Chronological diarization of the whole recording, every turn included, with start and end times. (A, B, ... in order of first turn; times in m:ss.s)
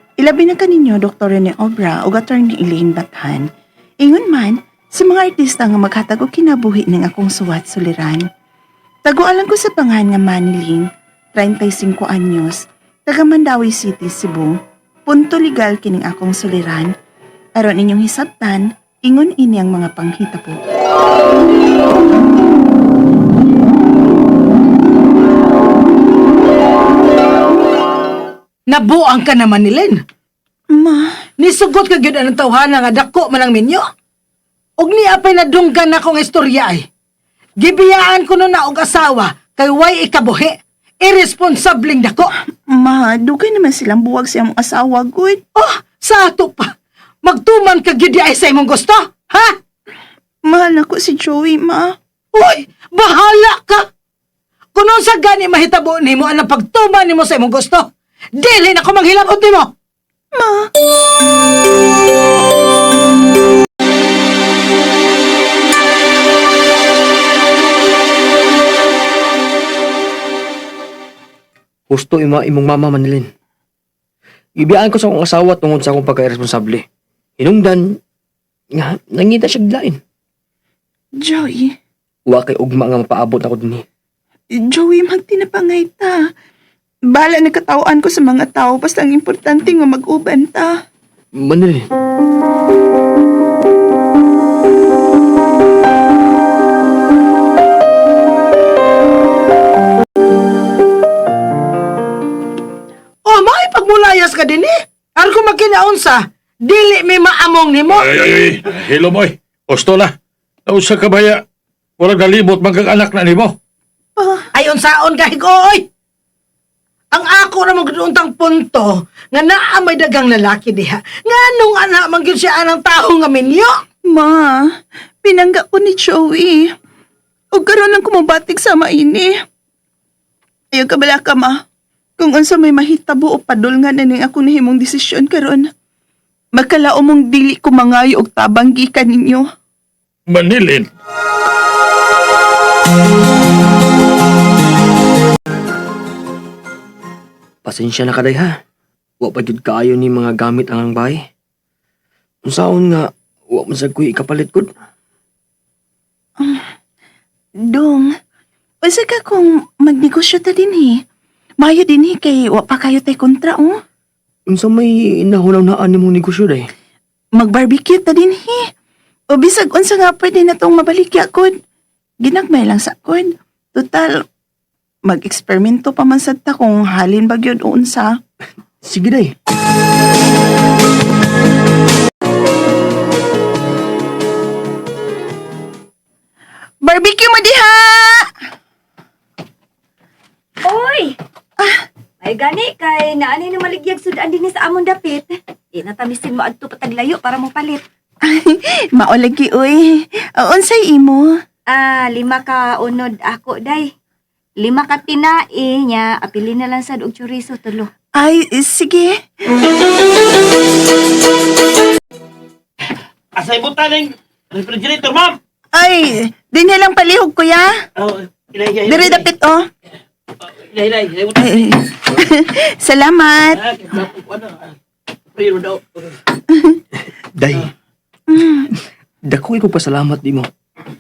0:00.2-0:03.5 A
0:04.0-0:08.2 A
0:09.0-0:14.6 A
0:15.1-0:16.9 A
0:17.6-0:20.6 A
0:28.7-0:30.0 B
0:30.7-0:31.2 A
0:31.4-0:33.9 B
0:34.8-0:36.8 B
0:37.6-0:42.3 B
0:42.7-0:45.4 A
0:45.6-0:46.7 B
0:47.2-0:49.5 B
0:50.5-0:51.9 A
0:52.3-0:53.8 B
0:54.8-0:59.7 B
1:00.4-1:00.7 A
1:11.9-1:13.3 C
1:14.6-1:16.8 C
1:17.4-1:18.0 C
1:18.8-1:20.0 C
1:21.2-1:21.8 A
1:22.3-1:23.8 C
1:24.5-1:26.2 A
1:27.1-1:30.7 A
1:31.4-1:31.9 C
1:43.3-1:48.1 B
1:48.0-1:50.1 D
1:50.7-1:51.4 D
1:52.0-1:53.6 D
1:54.2-1:54.5 A
1:54.5-1:55.9 B
1:57.1-2:03.8 B
2:04.1-2:04.6 A
2:05.2-2:06.6 A
2:07.5-2:09.3 A
2:10.7-2:11.6 A
2:12.2-2:15.7 A
2:16.6-2:19.5 A
2:20.3-2:20.9 D
2:27.6-2:28.6 C
2:29.2-2:31.2 C
2:32.5-2:34.7 C
2:37.7-2:38.1 A
2:38.8-2:41.0 A
2:41.6-2:43.8 A
2:44.5-2:46.7 C
2:47.4-2:48.6 A
2:49.3-2:51.5 A
2:52.2-2:54.1 A
2:55.1-2:58.1 A
2:58.8-2:59.3 C
3:06.8-3:08.3 A
3:10.6-3:11.2 E
3:12.2-3:17.8 E
3:18.3-3:21.3 A
3:21.7-3:23.9 E
3:24.6-3:27.9 E
3:28.2-3:29.1 A
3:33.4-3:35.4 F
3:35.7-3:37.7 A
3:38.5-3:38.9 F
3:38.8-3:39.6 A
3:40.8-3:41.2 F
3:41.3-3:43.8 A
3:45.4-3:45.8 F
3:46.5-3:46.8 A
3:47.4-3:47.7 C
3:48.3-3:48.7 A
3:49.3-3:50.5 C